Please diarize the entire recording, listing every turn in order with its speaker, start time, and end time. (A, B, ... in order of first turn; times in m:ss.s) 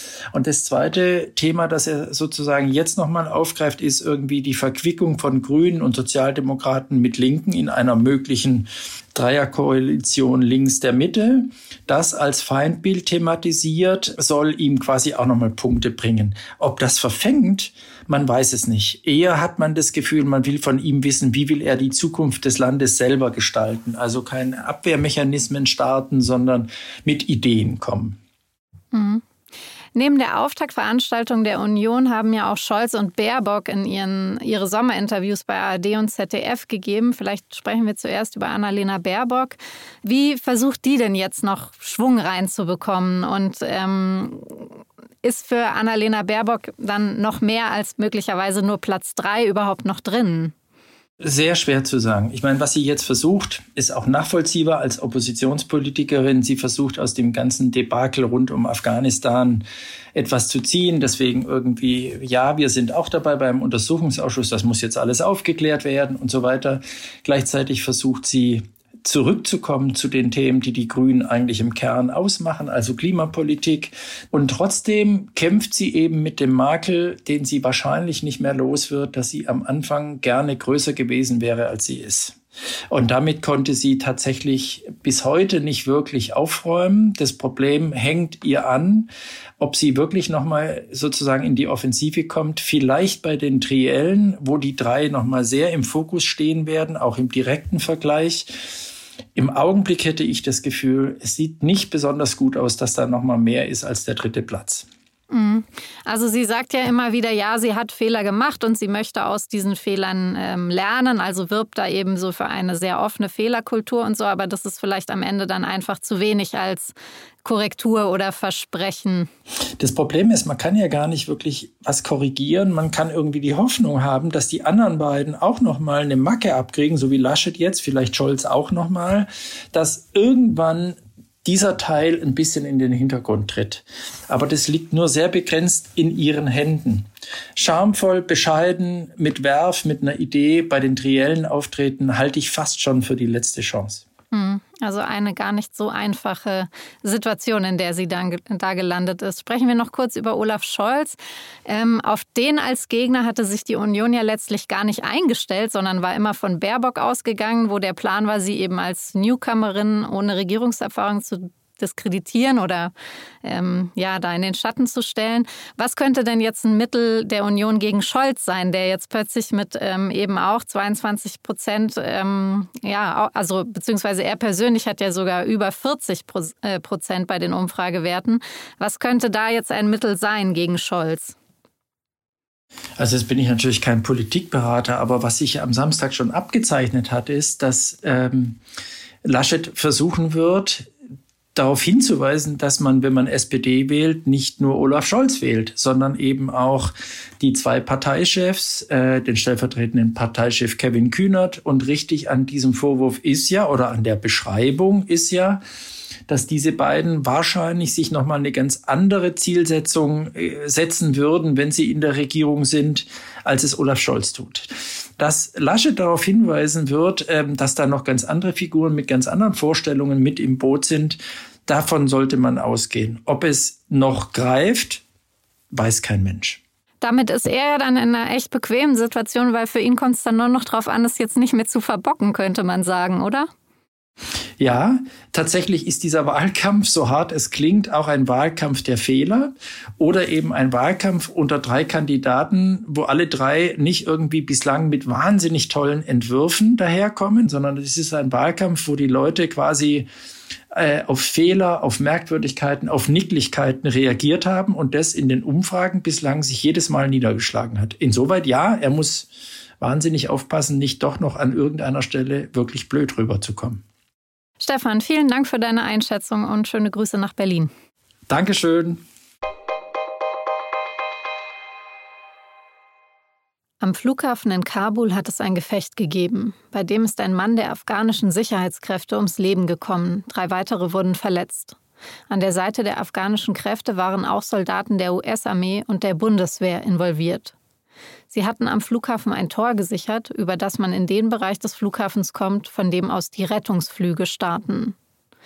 0:00.3-0:28.2 A
0:28.9-0:29.2 B
0:30.0-0:44.7 B
0:45.2-0:50.5 B
0:51.2-1:22.4 A
1:22.9-1:38.7 A
1:39.4-1:44.9 A
1:45.3-1:59.3 B
1:59.8-2:24.0 A
2:24.3-2:42.9 B
2:43.4-3:01.4 B
3:03.0-3:08.6 A
3:09.2-3:10.9 A
3:11.6-3:25.6 A
3:26.3-3:45.0 A
3:45.7-3:46.6 A
3:47.0-3:53.5 B
3:54.6-4:10.1 A
4:10.7-4:19.3 A
4:19.8-4:23.8 A
4:24.6-4:27.7 B
4:28.3-4:29.0 A
4:33.8-4:41.8 B
4:42.3-4:47.6 B
4:48.3-4:55.0 B